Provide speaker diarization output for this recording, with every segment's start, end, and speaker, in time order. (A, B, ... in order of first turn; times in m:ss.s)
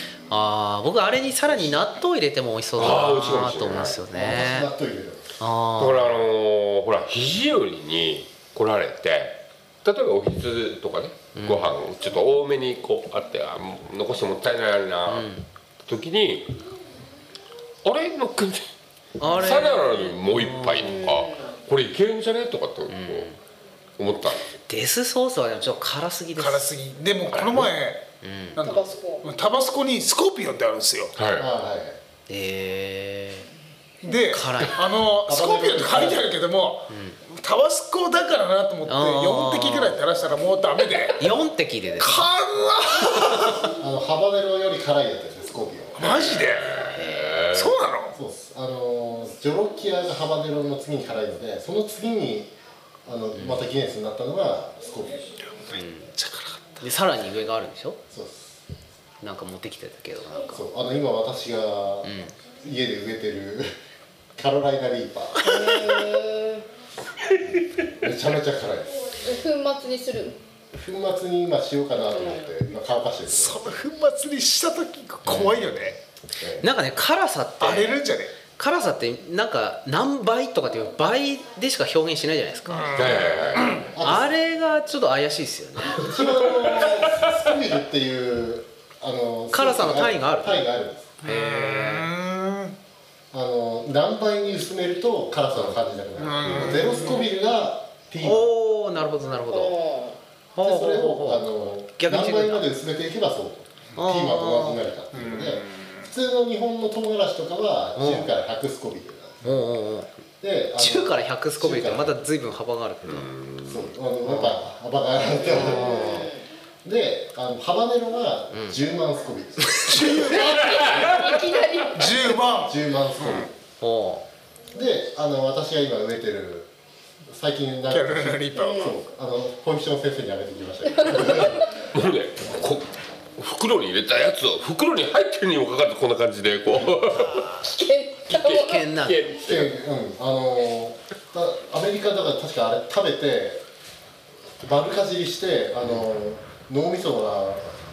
0:00.3-0:04.7 A
0:02.8-0:04.0 B
0:04.1-0:05.3 C
0:05.4-0:06.1 A
0:05.8-0:15.3 B
0:11.3-0:11.8 A
0:15.1-0:15.5 A
0:15.9-0:16.6 B
0:17.8-0:18.6 B
0:19.2-0:21.1 A
0:19.3-0:23.3 B
0:20.8-0:21.6 D
0:22.9-0:23.4 A
0:24.0-0:24.4 B
0:24.7-0:26.7 A
0:26.4-0:28.1 E
0:28.2-0:28.7 A
0:28.6-0:29.3 D
0:29.2-0:31.2 E
0:31.2-0:31.5 B
0:31.4-0:32.0 C
0:32.3-0:33.5 A
0:34.0-0:41.2 E
0:34.2-0:34.8 A
0:35.2-0:36.4 C
0:36.9-0:37.2 A
0:38.8-0:40.0 A
0:41.2-0:42.3 A
0:42.0-0:43.4 E
0:43.6-0:46.4 C
0:46.0-0:46.6 E
0:46.2-0:47.8 B
0:46.9-0:47.5 A
0:47.6-0:48.2 E
0:48.1-0:52.5 C
0:53.0-0:55.3 C
0:53.4-0:53.6 A
0:55.7-0:56.1 A
0:56.2-0:56.8 E
0:56.8-0:58.0 A
0:58.1-0:58.6 C
0:59.2-1:00.7 A
1:00.5-1:03.7 C
1:02.0-1:02.4 A
1:04.4-1:05.4 C
1:05.4-1:06.7 D
1:07.9-1:09.2 C
1:09.2-1:10.4 D
1:10.7-1:13.8 C
1:12.1-1:12.5 D
1:13.4-1:16.0 E
1:15.3-1:15.7 A
1:16.4-1:16.7 C
1:16.6-1:18.0 A
1:17.6-1:18.3 E
1:18.6-1:23.3 A
1:22.7-1:23.0 E
1:23.0-1:23.8 B
1:23.8-1:24.3 C
1:24.0-1:26.1 A
1:25.9-1:31.2 C
1:29.5-1:30.7 A
1:31.2-1:32.1 A
1:31.3-1:32.8 E
1:33.3-1:38.5 C
1:36.2-1:37.1 E
1:36.5-1:36.8 B
1:38.2-1:39.8 A
1:39.5-1:40.2 D
1:40.6-1:42.6 A
1:40.6-1:49.7 C
1:44.0-1:44.8 A
1:48.0-1:48.3 A
1:49.4-1:50.1 A
1:50.4-1:52.2 C
1:50.8-1:53.3 A
1:53.1-1:53.9 B
1:53.6-1:56.2 C
1:54.2-1:54.6 A
1:55.5-1:56.5 D
1:55.5-1:56.3 A
1:56.8-2:01.2 C
1:58.5-1:58.8 A
1:59.9-2:00.4 E
2:00.0-2:02.4 D
2:02.0-2:02.7 E
2:02.5-2:03.5 C
2:03.8-2:04.2 A
2:04.7-2:06.7 C
2:07.3-2:11.7 C
2:07.9-2:08.8 E
2:08.6-2:09.0 D
2:10.9-2:11.7 D
2:11.9-2:17.4 B
2:17.4-2:18.9 D
2:18.3-2:19.2 A
2:19.0-2:19.7 B
2:19.4-2:23.6 C
2:24.6-2:27.8 C